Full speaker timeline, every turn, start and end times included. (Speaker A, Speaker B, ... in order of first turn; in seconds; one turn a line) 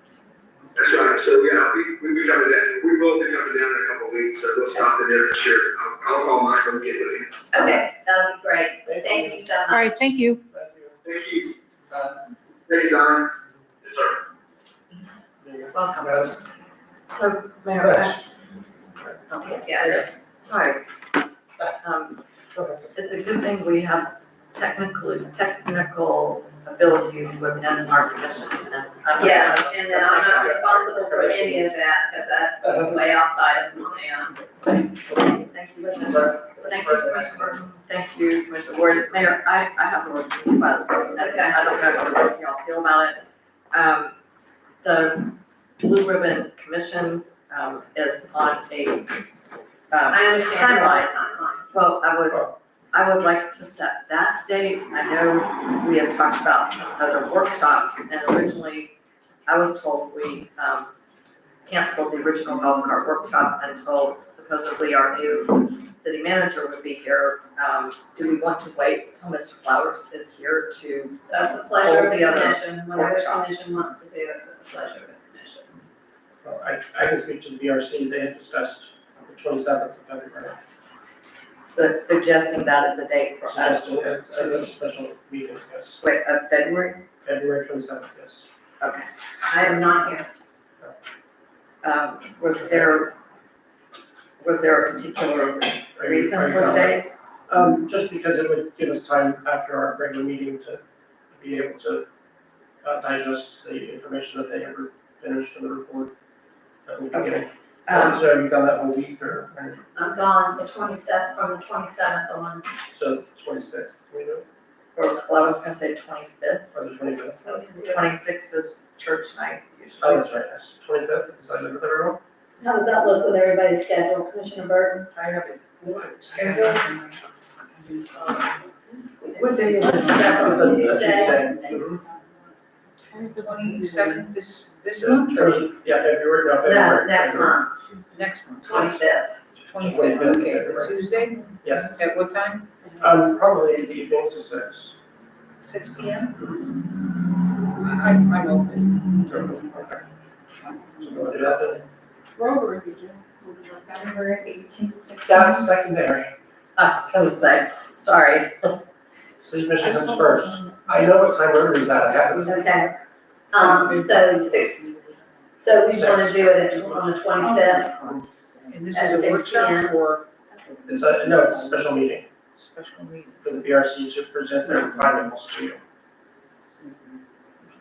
Speaker A: 0.8-7.3
Speaker B: 7.5-10.0
Speaker C: 8.8-9.4
Speaker D: 9.7-10.4
Speaker C: 10.5-11.0
Speaker A: 11.0-11.5
Speaker C: 11.9-12.2
Speaker A: 12.7-13.3
Speaker A: 13.8-14.2
Speaker C: 15.4-16.4
Speaker E: 15.7-16.4
Speaker E: 17.1-18.2
Speaker C: 17.8-18.2
Speaker E: 19.3-20.8
Speaker B: 19.6-20.0
Speaker E: 21.8-22.2
Speaker C: 22.6-22.8
Speaker E: 22.8-30.7
Speaker B: 29.2-34.4
Speaker C: 30.4-31.7
Speaker C: 32.6-32.9
Speaker C: 35.1-35.4
Speaker E: 35.4-43.2
Speaker C: 35.9-37.1
Speaker B: 41.2-41.8
Speaker E: 43.7-44.1
Speaker E: 44.8-49.1
Speaker E: 49.9-51.1
Speaker B: 50.1-51.6
Speaker E: 51.7-58.9
Speaker E: 59.5-60.9
Speaker E: 61.7-71.2
Speaker B: 71.3-75.7
Speaker E: 71.8-73.7
Speaker C: 76.4-80.6
Speaker E: 81.7-84.7
Speaker C: 83.5-86.0
Speaker E: 86.0-87.0
Speaker C: 87.2-88.4
Speaker E: 88.8-89.1
Speaker B: 89.5-90.3
Speaker E: 91.8-93.1
Speaker E: 94.4-97.1
Speaker C: 96.0-100.8
Speaker C: 101.3-102.1
Speaker C: 102.8-106.1
Speaker C: 106.8-109.8
Speaker E: 107.1-108.2
Speaker B: 110.0-112.7
Speaker C: 112.9-114.5
Speaker E: 115.0-116.7
Speaker C: 116.7-117.7
Speaker B: 117.5-118.0
Speaker E: 117.8-120.3
Speaker C: 120.0-122.2
Speaker B: 122.6-125.1
Speaker C: 125.1-126.8
Speaker D: 126.3-127.1
Speaker B: 129.2-131.5
Speaker C: 129.3-132.0
Speaker D: 133.1-135.6
Speaker C: 135.0-137.6
Speaker B: 136.6-137.7
Speaker D: 138.1-139.0
Speaker B: 138.6-139.3
Speaker D: 139.7-142.7
Speaker C: 139.7-140.9
Speaker C: 141.6-142.0
Speaker C: 143.0-144.9
Speaker D: 145.6-146.5
Speaker D: 147.7-149.1
Speaker C: 149.2-150.0
Speaker C: 151.0-151.8
Speaker D: 152.4-153.3
Speaker C: 155.2-156.3
Speaker E: 156.8-158.8
Speaker C: 159.4-162.5
Speaker D: 159.8-160.8
Speaker B: 162.4-162.9
Speaker B: 163.5-164.8
Speaker B: 165.6-167.9
Speaker C: 165.9-167.1
Speaker D: 168.6-171.7
Speaker B: 168.9-170.0
Speaker C: 170.9-172.3
Speaker D: 172.6-173.5
Speaker C: 173.4-175.8